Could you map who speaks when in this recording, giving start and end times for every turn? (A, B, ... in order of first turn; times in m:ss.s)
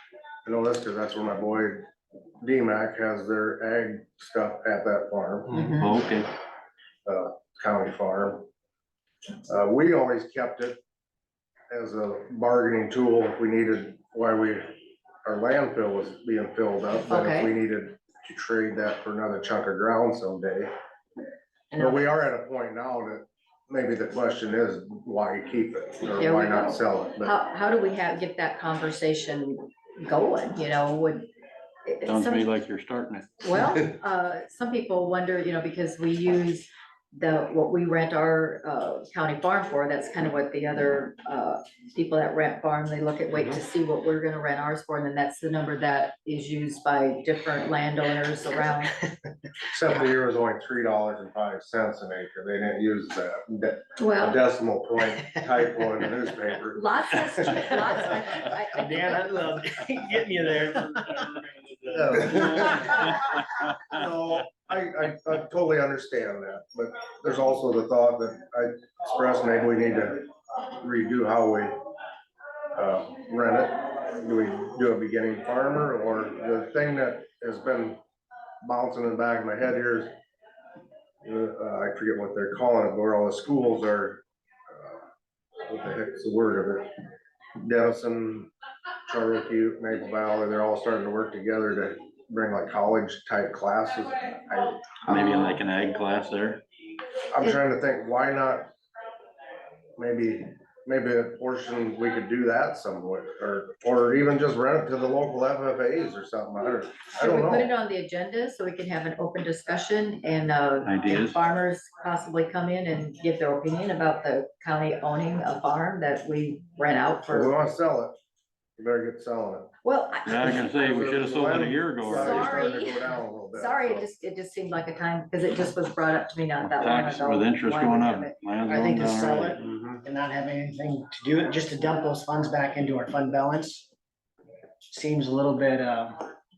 0:00.4-0:01.9 A
0:02.4-0:05.7 A
0:05.6-0:05.8 B
0:05.7-0:06.3 C
0:07.0-0:08.5 A
0:09.5-0:10.8 A
0:11.7-0:14.7 A
0:15.2-0:20.7 A
0:17.1-0:17.5 B
0:21.7-0:22.0 B
0:21.8-0:27.3 A
0:26.0-0:31.3 B
0:31.9-0:32.6 B
0:32.0-0:33.4 C
0:33.4-0:49.0 B
0:43.3-0:43.6 A
0:49.7-0:57.6 A
0:54.0-0:54.4 B
0:56.7-0:59.4 B
0:57.6-0:58.1 D
0:58.7-1:02.6 D
1:01.9-1:03.2 A
1:02.6-1:03.3 C
1:03.7-1:10.2 A
1:10.8-1:11.8 A
1:12.8-1:18.0 A
1:18.6-1:20.1 A
1:21.2-1:25.0 A
1:25.7-1:26.9 A
1:27.6-1:28.5 A
1:29.1-1:35.6 A
1:35.1-1:36.6 C
1:37.3-1:38.7 A
1:40.0-1:47.7 A
1:47.2-1:57.5 B
1:50.8-1:51.4 C
1:57.3-1:58.1 A
1:58.8-1:59.7 A
1:59.8-2:00.7 B
2:00.2-2:02.7 C
2:00.6-2:04.1 A
2:02.1-2:08.4 B
2:06.6-2:09.6 C
2:08.7-2:13.9 D
2:09.6-2:10.0 A
2:14.9-2:16.2 D